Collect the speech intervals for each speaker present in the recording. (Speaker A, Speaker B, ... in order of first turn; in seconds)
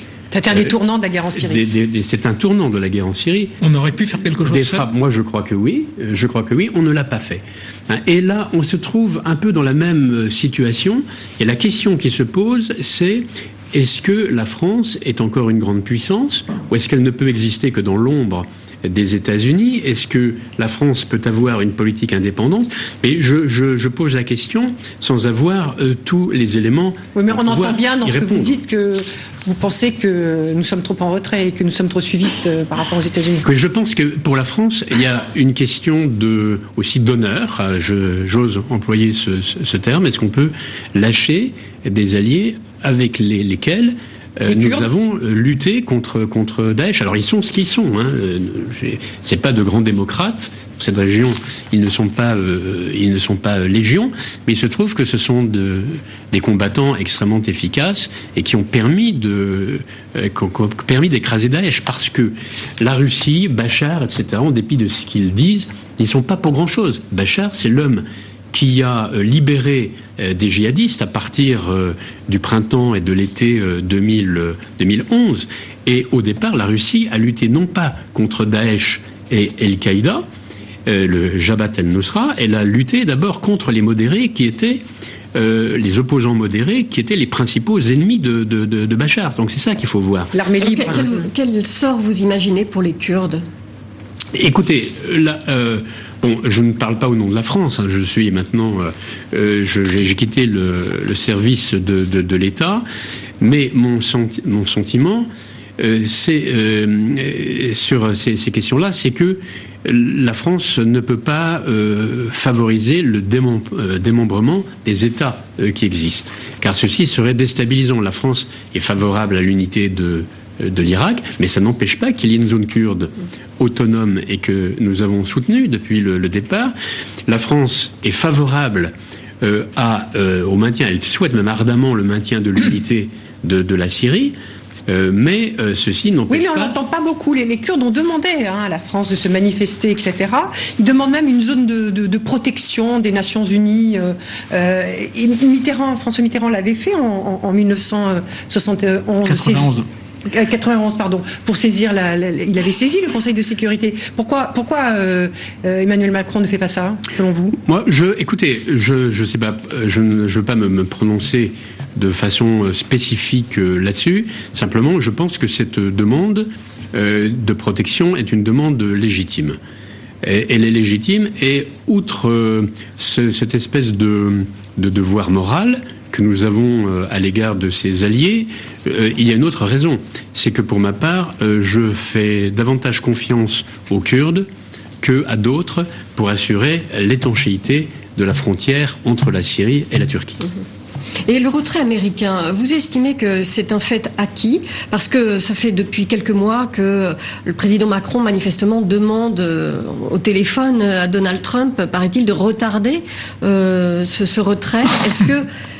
Speaker A: 0.3-1.6, 27.1-33.5, 44.5-44.9, 90.3-91.3, 136.3-149.8, 150.3-157.6
Speaker B: 1.3-3.5, 4.4-28.6, 33.4-80.2, 80.8-84.8, 85.3-90.3, 94.3-102.8, 103.4-126.7, 127.3-134.3, 134.9-136.8, 157.7-169.6, 170.2-184.5, 185.0-190.4
Speaker C: 3.6-4.9, 149.2-149.8
Speaker D: 90.6-93.4, 191.3-205.5